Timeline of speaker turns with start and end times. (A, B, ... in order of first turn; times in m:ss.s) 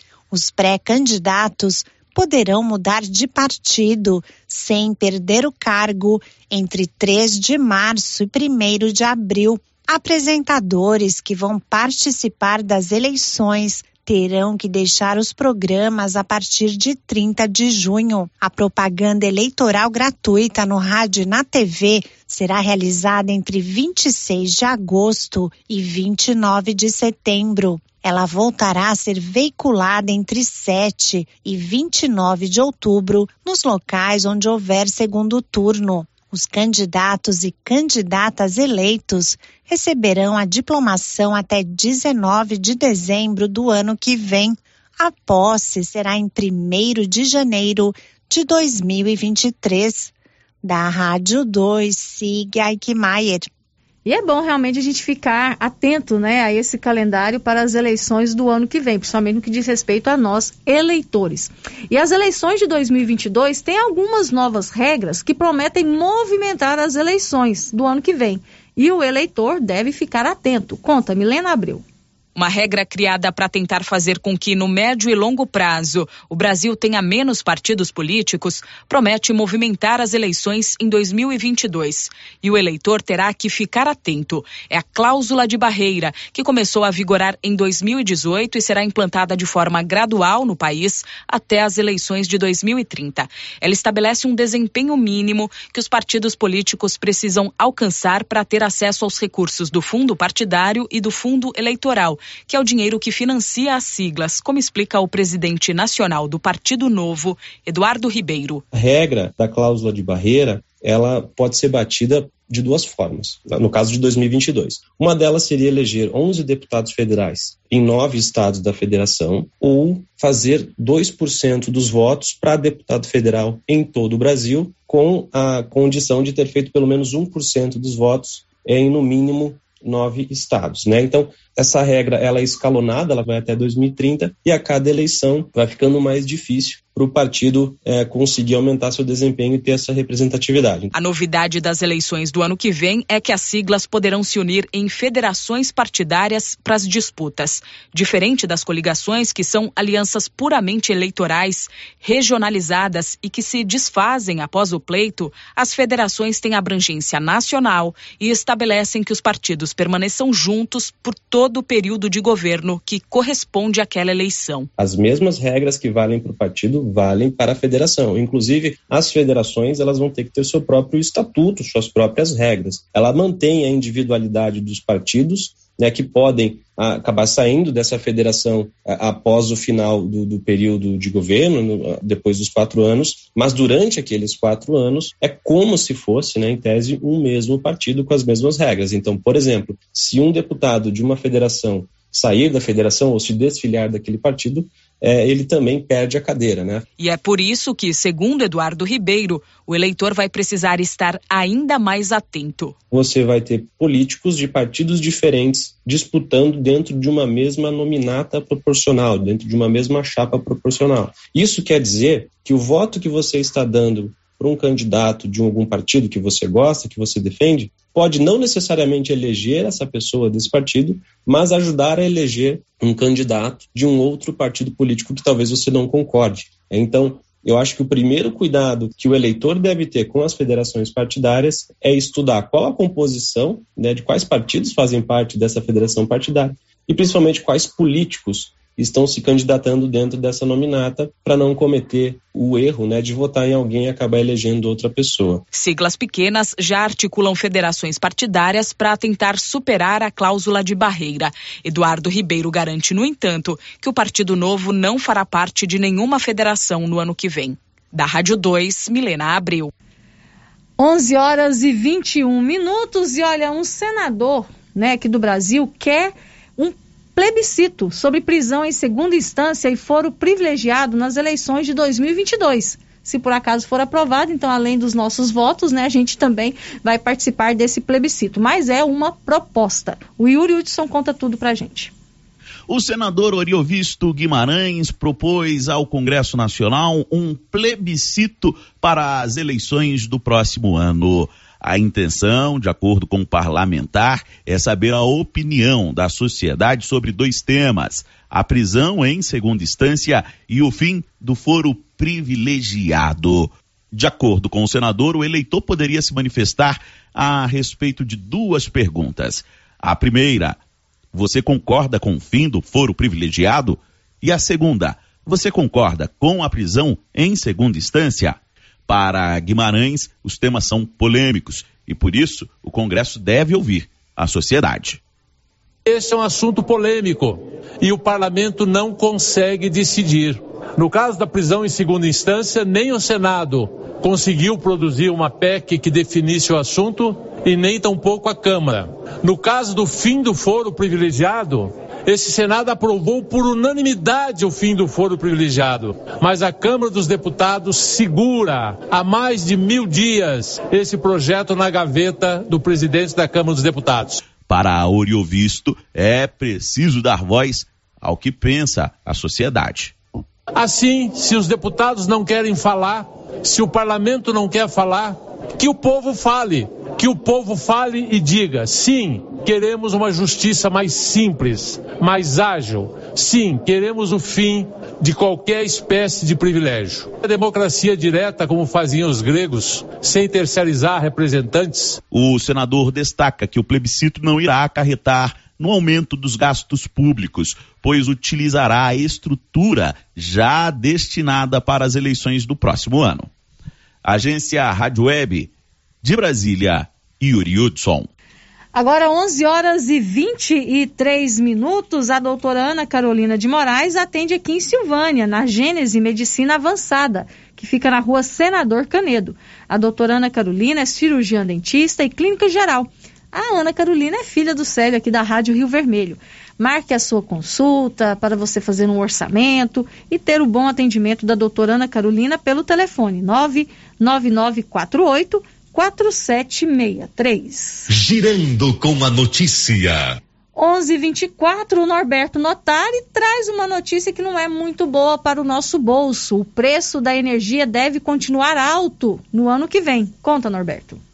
0:00.3-0:50.1 A
0:50.6-0:53.5 A
0:54.0-1:11.8 B
1:12.4-1:48.6 C
1:48.7-2:20.9 D
2:20.9-2:44.7 C
2:44.8-3:16.8 D
3:17.0-3:22.7 C
3:22.9-4:05.4 D
4:05.5-4:19.7 C
4:20.8-4:41.9 B
4:42.7-5:10.6 E
5:11.1-5:25.0 E
5:25.8-5:54.2 F
5:54.4-5:59.9 E
6:00.5-6:22.0 F
6:22.1-6:33.3 E
6:34.0-6:35.5 E
6:36.0-6:38.1 E
6:38.7-7:07.9 B
7:07.9-7:10.2 G
7:10.5-7:21.0 B